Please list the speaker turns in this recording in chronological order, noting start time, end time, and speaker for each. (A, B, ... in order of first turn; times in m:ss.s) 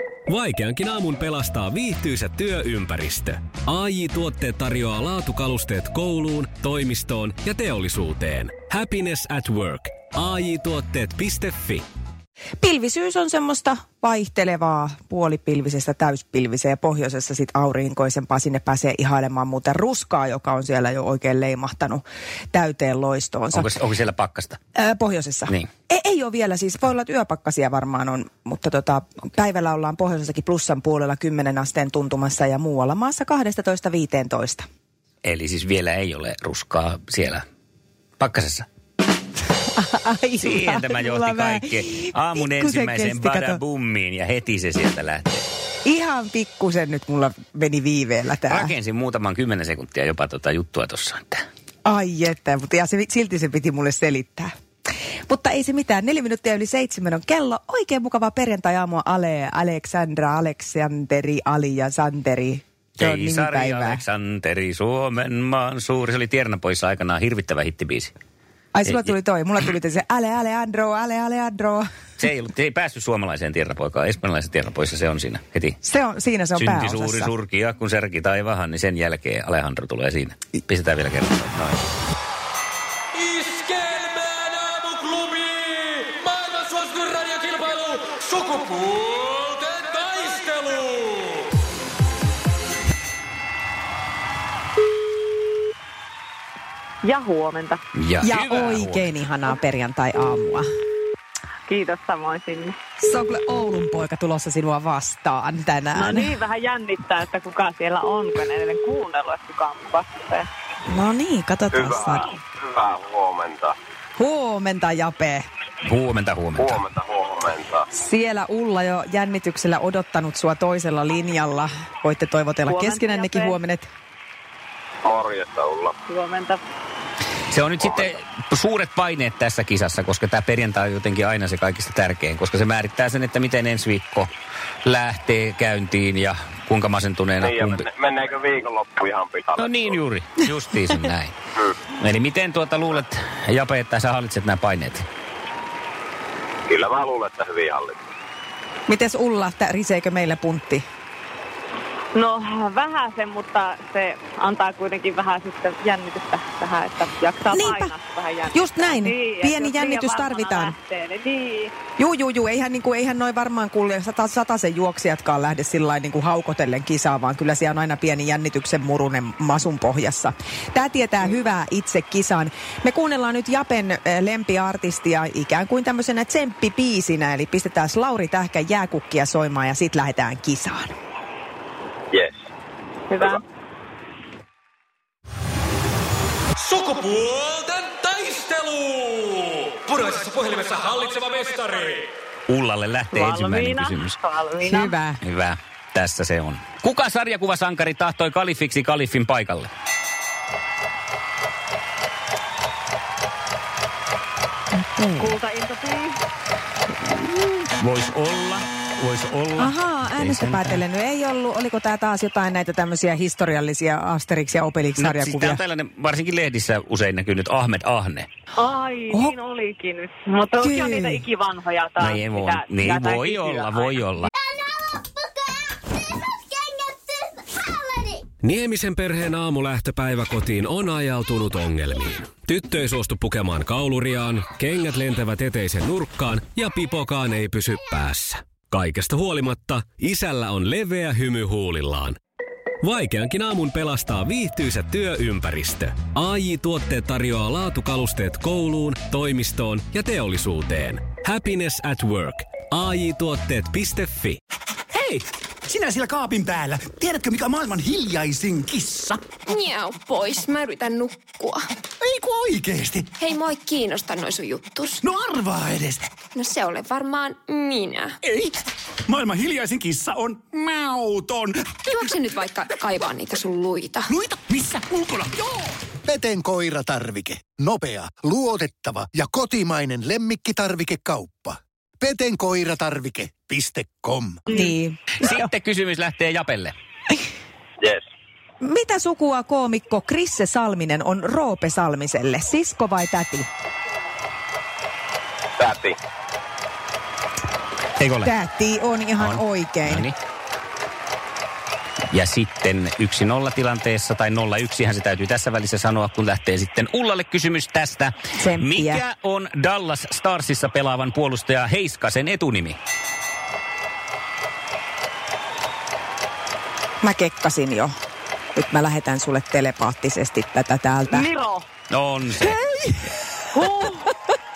0:00.3-0:11.8 A
0:12.6-0:23.7 B
0:23.5-0:24.6 C
0:24.7-0:34.6 B
0:35.2-0:37.4 C
0:38.2-0:38.6 C
0:39.7-0:43.6 B
0:40.4-0:45.5 C
0:45.8-0:48.7 B
0:48.4-0:51.4 C
0:51.8-0:54.5 B
0:55.3-1:04.0 B
1:03.0-1:08.1 C
1:08.7-1:11.8 B
1:08.8-1:09.1 C
1:12.2-1:15.8 C
1:15.8-1:17.3 B
1:16.5-1:21.8 C
1:23.2-1:31.2 D
1:37.0-1:37.8 E
1:38.0-1:39.1 C
1:38.2-1:40.7 B
1:41.7-1:42.8 E
1:43.0-1:46.3 B
1:45.9-1:50.5 E
1:50.9-1:52.3 B
1:51.7-1:53.7 F
1:54.2-1:55.4 B
1:55.8-1:56.8 C
1:56.6-1:57.8 F
1:57.9-2:03.9 B
2:02.7-2:03.6 E
2:05.0-2:06.0 F
2:06.1-2:06.6 E
2:07.5-2:14.3 C
2:07.8-2:08.1 F
2:14.8-2:17.8 C
2:17.4-2:20.0 F
2:19.6-2:21.3 C
2:22.0-2:25.0 C
2:26.7-2:28.0 F
2:28.9-2:30.8 B
2:32.1-2:41.7 E
2:37.5-2:37.9 B
2:38.5-2:40.7 B
2:42.0-3:00.9 B
3:02.1-3:02.4 F
3:03.1-3:03.4 E
3:06.6-3:12.1 D
3:12.5-3:14.2 C
3:13.1-3:15.0 E
3:14.6-3:15.2 B
3:15.2-3:19.7 C
3:24.7-3:25.3 B
3:25.2-3:26.2 E
3:27.2-3:30.8 C
3:29.6-3:35.6 B
3:35.0-3:38.3 C
3:38.6-3:44.1 E
3:40.6-3:41.2 B
3:42.0-3:44.3 C
3:48.4-4:02.2 A
4:02.8-4:14.4 A
4:14.9-4:19.2 G
4:19.4-4:21.7 H
4:22.0-4:23.1 G
4:23.1-4:25.0 H
4:25.0-4:26.0 G
4:26.3-4:28.2 H
4:29.1-4:31.6 G
4:31.9-4:34.1 H
4:34.3-4:35.4 G
4:36.1-4:44.4 I
4:44.5-4:45.5 B
4:45.2-4:46.7 C
4:48.6-4:53.5 B
4:55.6-4:56.0 F
4:58.0-4:58.3 C
4:58.2-5:00.1 B
4:59.2-5:00.1 C
5:02.1-5:12.8 C
5:08.4-5:09.0 B
5:17.0-5:17.9 B
5:18.5-5:21.3 B
5:21.1-5:21.6 E
5:21.9-5:22.6 C
5:22.4-5:23.1 B
5:23.5-5:24.1 E